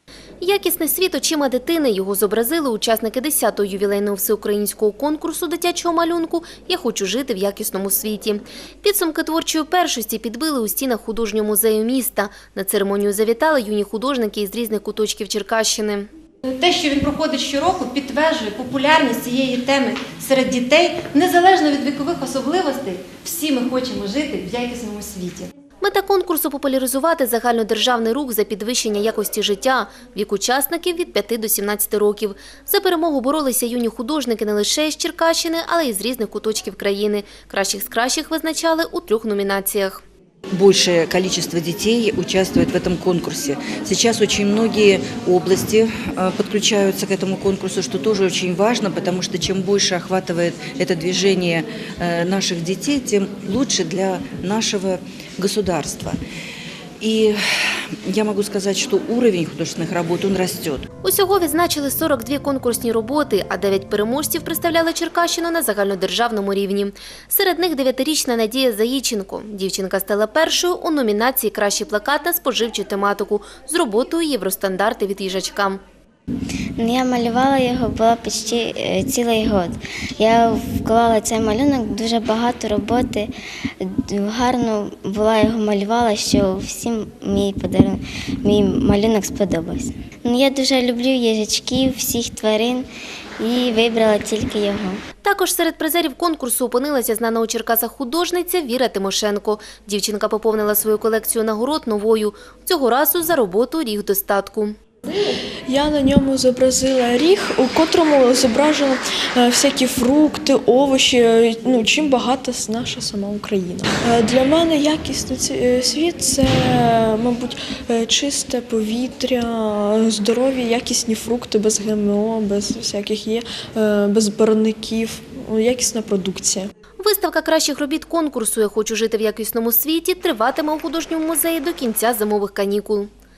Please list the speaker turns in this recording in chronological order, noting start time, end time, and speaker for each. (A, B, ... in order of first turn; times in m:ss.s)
0:00.4-0:16.1 A
0:16.4-0:25.5 B
0:25.8-0:40.0 A
0:40.5-0:56.2 C
0:57.0-0:57.4 C
0:58.1-1:00.9 C
1:01.0-1:15.8 A
1:16.8-1:35.0 D
1:35.2-1:44.8 A
1:45.7-2:06.7 E
2:07.0-2:13.1 A